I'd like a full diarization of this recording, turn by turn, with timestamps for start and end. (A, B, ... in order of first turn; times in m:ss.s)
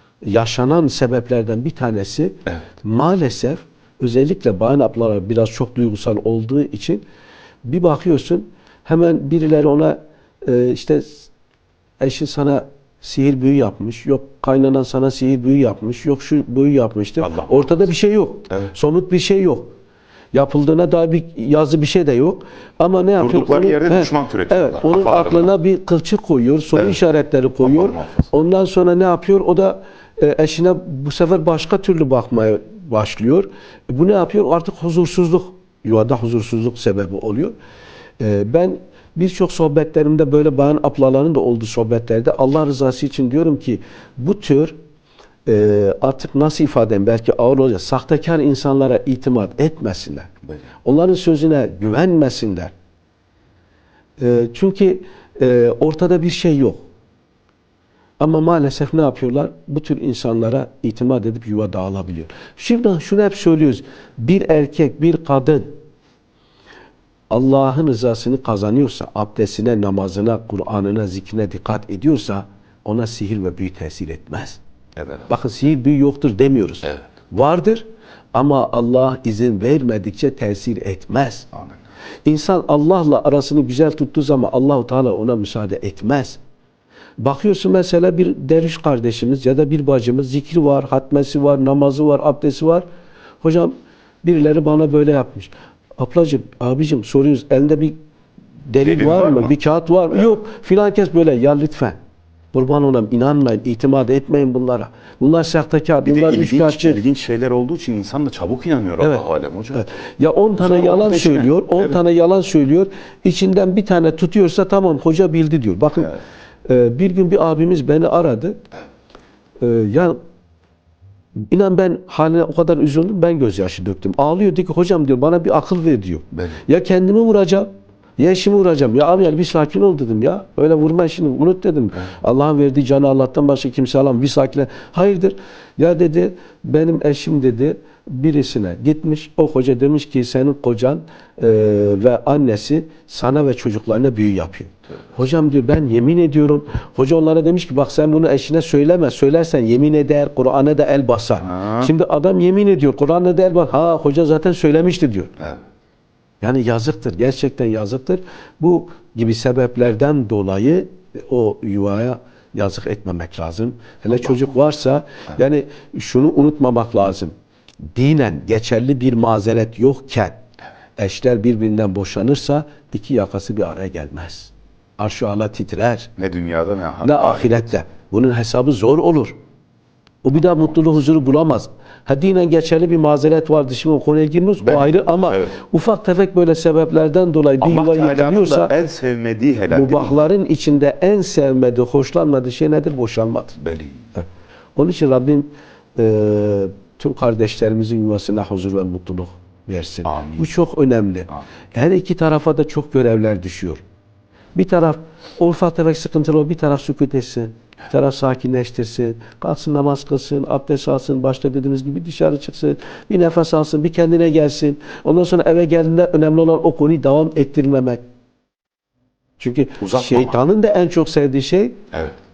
0:00.3-0:07.0 A
0:07.6-0:11.3 A
0:12.0-0:19.7 A
0:17.2-0:17.6 B
0:20.3-0:37.6 A
0:23.2-0:25.5 B
0:27.6-0:28.2 B
0:38.2-0:44.8 A
0:45.5-0:50.3 A
0:50.8-0:52.7 A
0:54.2-0:56.8 A
0:58.2-1:05.7 A
1:07.3-1:14.6 A
1:15.2-1:21.5 A
1:22.3-1:26.4 A
1:27.2-1:32.8 A
1:33.4-1:38.0 A
1:38.7-1:42.0 A
1:38.8-1:39.5 B
1:42.5-1:47.0 A
1:46.1-1:49.8 B
1:49.0-1:58.6 A
1:50.6-1:52.0 B
1:59.6-2:00.2 A
2:01.5-2:35.5 A
2:31.6-2:31.9 B
2:36.4-2:47.3 A
2:48.0-2:50.4 A
2:51.0-2:56.1 A
2:56.2-2:57.6 B
2:57.0-2:59.4 A
3:00.2-3:08.8 A
3:07.6-3:10.2 B
3:09.7-3:13.6 A
3:13.6-3:14.0 B
3:14.8-3:23.8 A
3:20.1-3:20.4 B
3:24.6-3:38.0 A
3:39.4-3:41.9 A
3:39.8-3:40.3 B